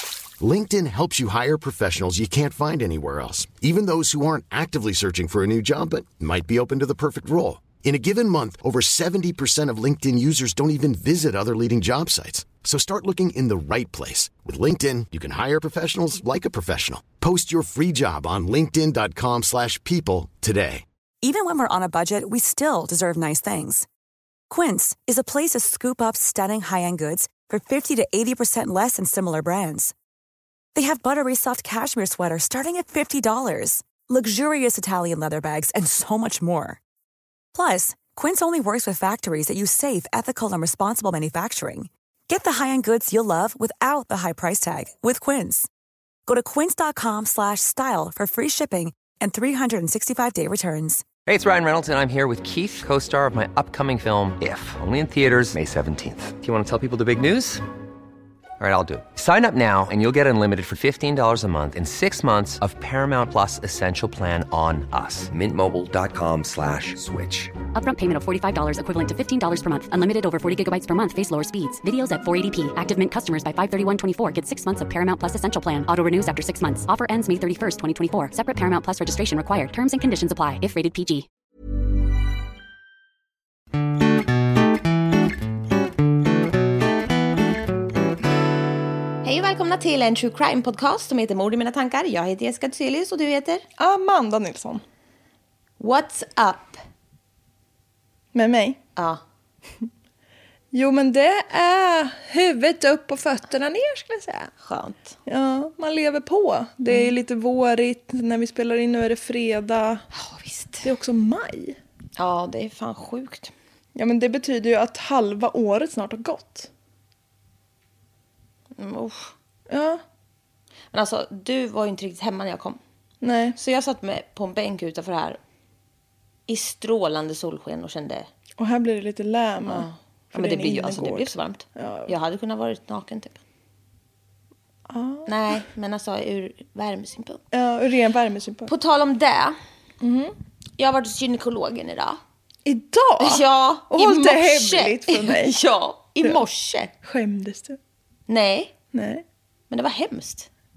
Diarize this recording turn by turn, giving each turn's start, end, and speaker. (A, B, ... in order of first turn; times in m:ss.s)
0:00.4-0:20.8 A
0:21.2-0:23.9 B
0:24.5-0:29.9 B
0:30.7-0:36.8 B
0:37.5-0:45.7 B
0:46.3-0:51.2 B
0:51.2-0:57.6 C
0:58.6-1:07.5 C
1:07.8-1:21.3 D
1:29.2-1:33.6 E
1:33.8-1:34.8 F
1:35.8-1:36.8 E
1:38.3-1:38.8 F
1:39.0-1:39.2 E
1:40.7-1:44.5 F
1:44.6-1:45.2 E
1:45.3-1:50.1 F
1:50.1-1:50.9 E
1:50.8-1:51.8 F
1:52.2-1:53.5 E
1:54.0-1:56.7 F
1:58.8-1:59.3 E
1:59.7-2:00.0 F
2:00.9-2:02.8 E
2:03.2-2:03.6 F
2:03.6-2:05.4 E
2:06.5-2:08.3 E
2:08.6-2:12.1 F
2:09.7-2:13.4 E
2:14.9-2:15.6 F
2:15.3-2:17.4 E
2:17.5-2:18.7 F
2:18.7-2:19.6 E
2:20.0-2:20.4 F
2:20.8-2:22.2 E
2:22.6-2:25.6 F
2:23.2-2:26.9 E
2:27.0-2:27.8 F
2:28.3-2:28.7 E
2:28.9-2:29.2 F
2:29.7-2:30.5 E